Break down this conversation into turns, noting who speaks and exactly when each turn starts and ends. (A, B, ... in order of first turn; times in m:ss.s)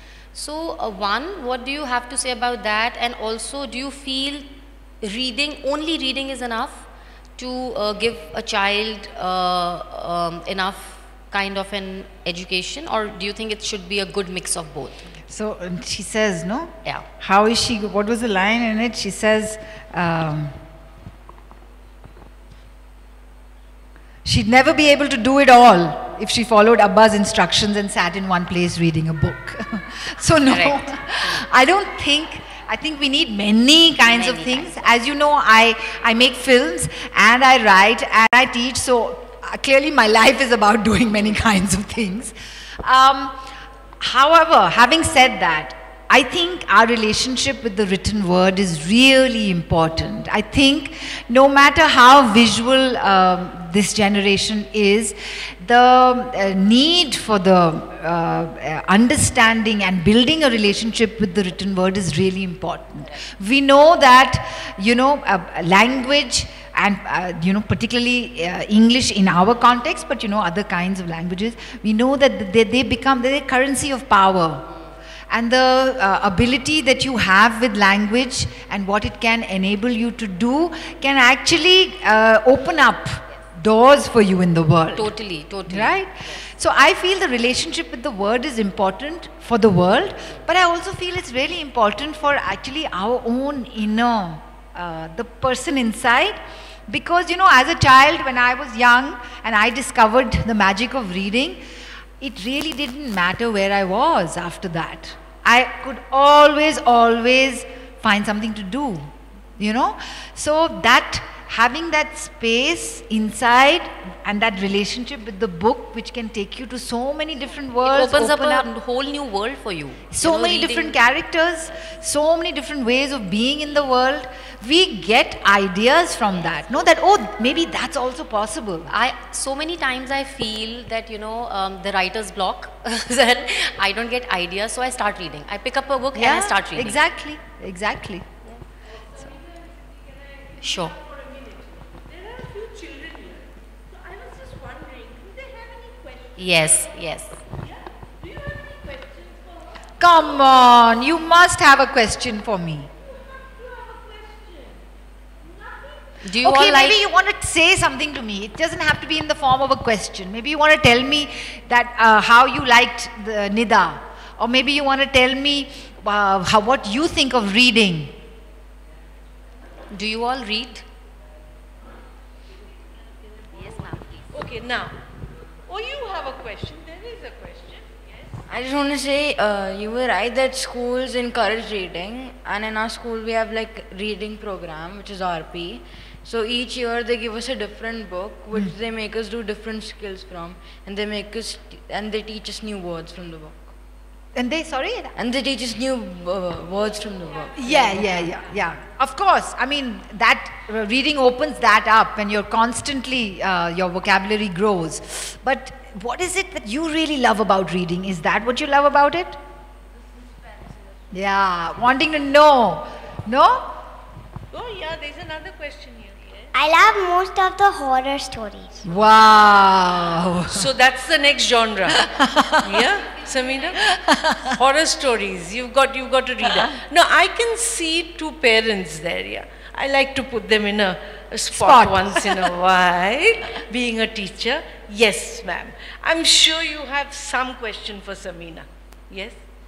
0:00.3-0:06.8 A
0:07.4-0:15.0 A
0:15.3-0:20.5 B
0:24.2-0:43.4 B
0:30.4-0:31.4 A
0:34.0-0:34.8 A
0:44.0-1:14.7 B
1:15.3-1:25.1 B
1:25.0-1:26.4 A
1:25.7-1:41.6 B
1:42.2-1:58.7 B
1:57.8-2:01.0 A
2:00.1-2:08.9 B
2:08.9-2:17.0 A
2:16.1-2:18.3 B
2:20.6-2:21.0 A
2:22.1-2:26.4 C
2:26.4-2:27.4 A
2:28.2-2:29.7 C
2:30.0-2:32.9 B
2:33.5-2:34.8 C
2:36.2-2:37.0 A
2:36.4-2:48.1 B
2:49.9-2:50.8 A
2:53.6-2:54.2 A
2:54.3-2:55.0 C
2:55.7-2:58.3 C
2:58.5-3:13.7 D
3:14.3-3:15.1 B
3:15.2-3:18.3 D
3:17.6-3:29.4 B
3:31.1-3:33.7 B
3:34.5-3:36.5 C
3:36.5-3:38.8 E
3:38.8-3:40.6 B
3:40.5-3:42.0 C
3:41.9-3:42.7 B
3:42.6-3:43.8 C
3:43.8-3:44.5 B
3:44.5-3:59.4 C
3:51.5-3:52.5 B